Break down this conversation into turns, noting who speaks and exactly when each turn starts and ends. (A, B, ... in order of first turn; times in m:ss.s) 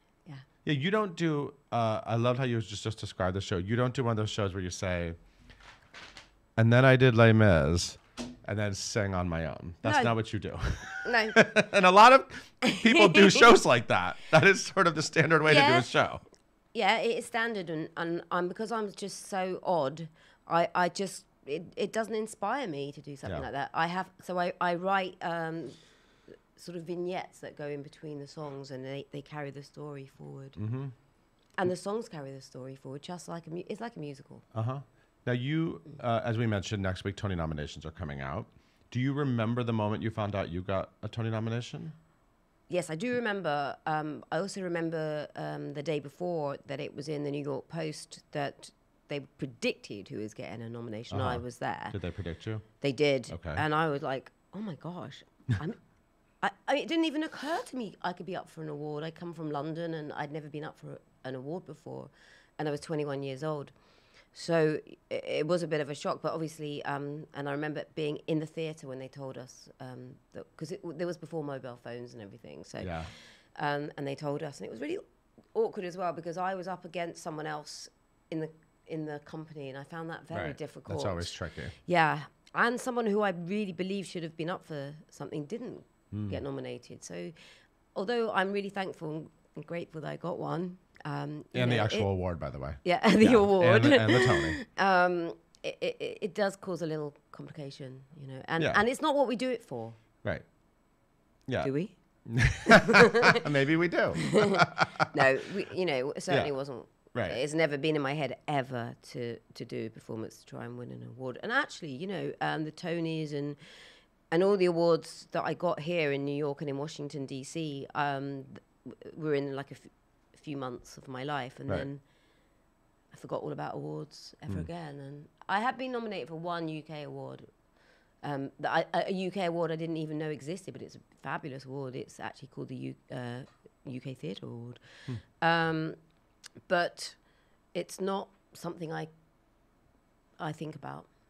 0:00.6-0:05.2 A
0:06.6-0:16.2 A
0:09.8-0:10.1 B
0:11.0-0:11.4 B
0:12.6-0:13.5 B
0:15.4-0:15.9 B
0:16.7-0:25.8 B
0:26.6-0:30.6 B
0:30.6-0:30.9 A
0:31.6-0:34.4 B
0:34.5-0:41.9 A
0:42.7-0:52.0 B
0:51.1-0:52.6 A
0:52.8-0:55.8 B
0:53.3-0:53.6 A
0:56.4-1:03.7 B
1:04.3-1:15.0 B
1:12.8-1:13.1 A
1:15.5-1:27.3 B
1:20.3-1:21.7 A
1:26.1-1:26.4 A
1:27.9-1:32.1 B
1:31.5-1:34.6 A
1:32.8-1:40.0 B
1:38.6-1:38.8 A
1:41.5-1:41.7 A
1:41.6-1:41.9 B
1:42.2-1:45.2 A
1:42.7-1:43.4 B
1:44.2-1:53.6 B
1:46.3-1:46.5 A
1:47.1-1:47.4 A
1:54.3-2:02.0 B
2:03.1-2:07.5 B
2:08.2-2:14.8 B
2:15.4-2:16.0 B
2:16.6-2:17.2 B
2:17.7-2:19.1 B
2:20.4-2:21.1 B